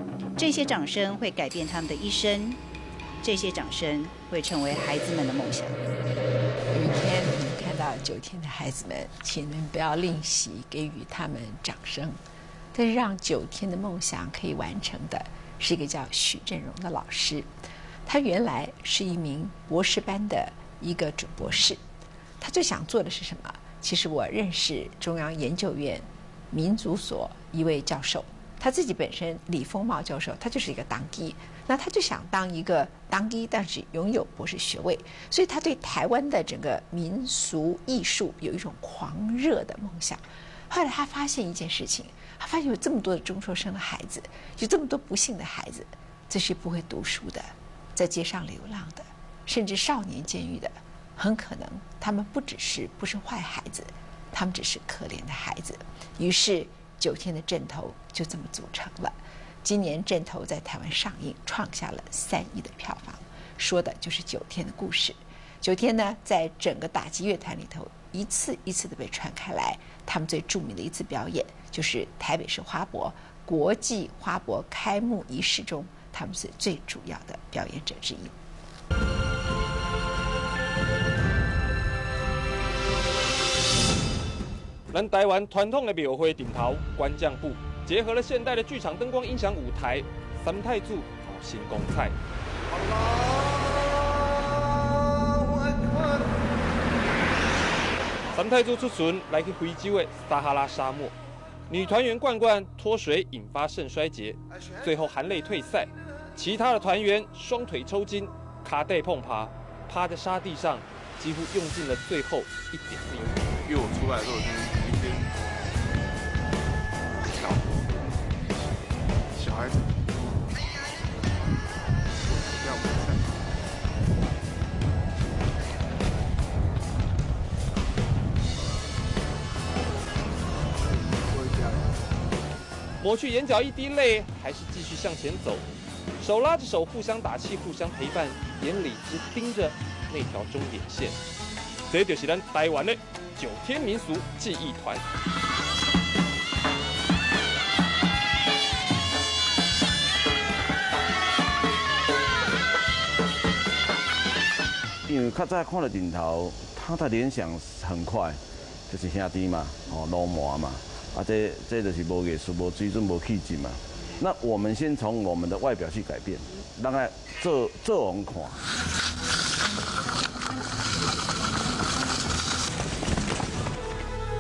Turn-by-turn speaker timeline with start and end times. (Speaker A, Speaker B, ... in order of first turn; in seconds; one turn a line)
Speaker A: 0.4-2.6
Speaker A: 3.2-5.8
Speaker B: 6.7-12.2
Speaker B: 12.7-17.5
Speaker B: 18.1-21.8
Speaker B: 22.4-78.3
Speaker C: 84.9-92.2
Speaker D: 93.0-93.3
Speaker C: 98.3-101.2
Speaker C: 101.7-113.4
Speaker D: 113.6-115.3
Speaker D: 117.2-118.6
Speaker D: 119.3-120.0
Speaker D: 122.2-123.5
Speaker D: 131.1-132.0
Speaker C: 133.0-141.2
Speaker C: 141.9-145.0
Speaker E: 155.1-168.7